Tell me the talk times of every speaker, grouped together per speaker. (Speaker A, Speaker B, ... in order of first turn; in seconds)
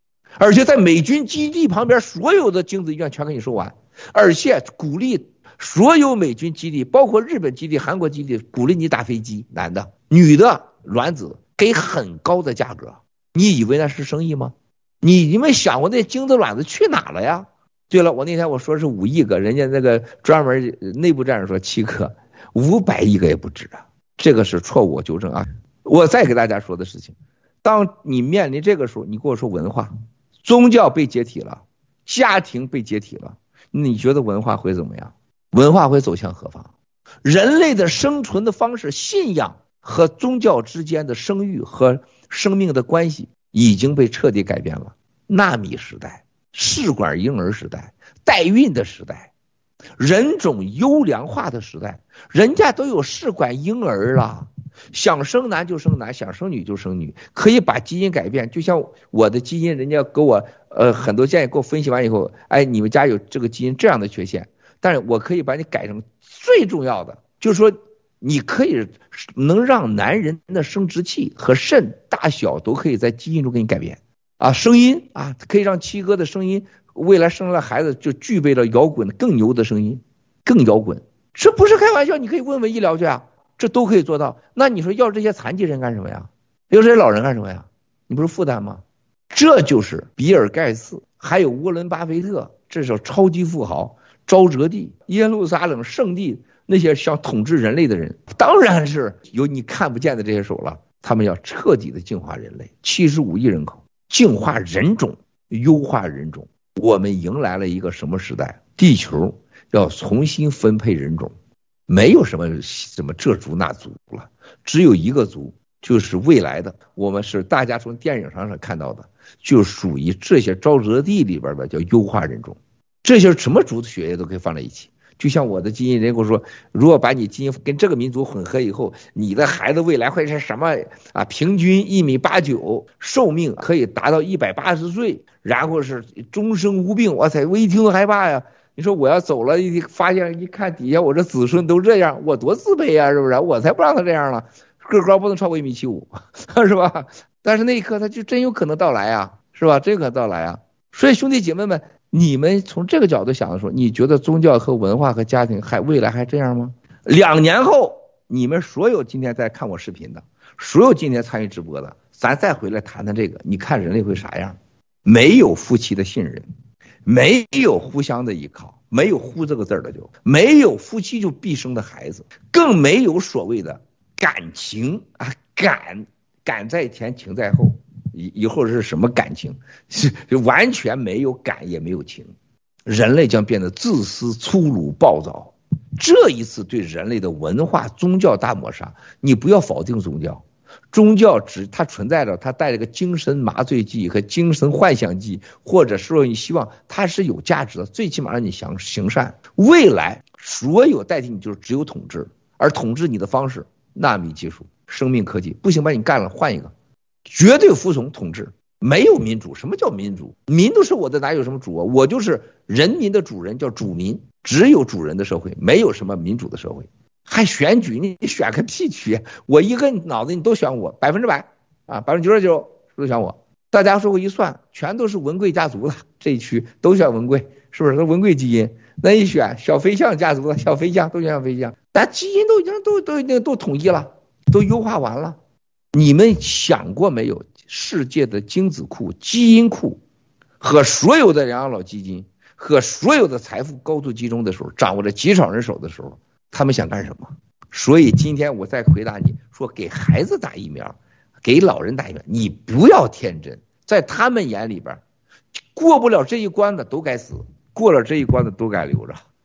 Speaker A: 0.4-29.9, 30.4-36.7, 37.2-49.3, 50.0-111.3, 111.9-166.4, 167.1-182.3, 182.9-206.7, 207.3-235.4, 235.9-240.0, 240.6-255.0, 255.7-259.2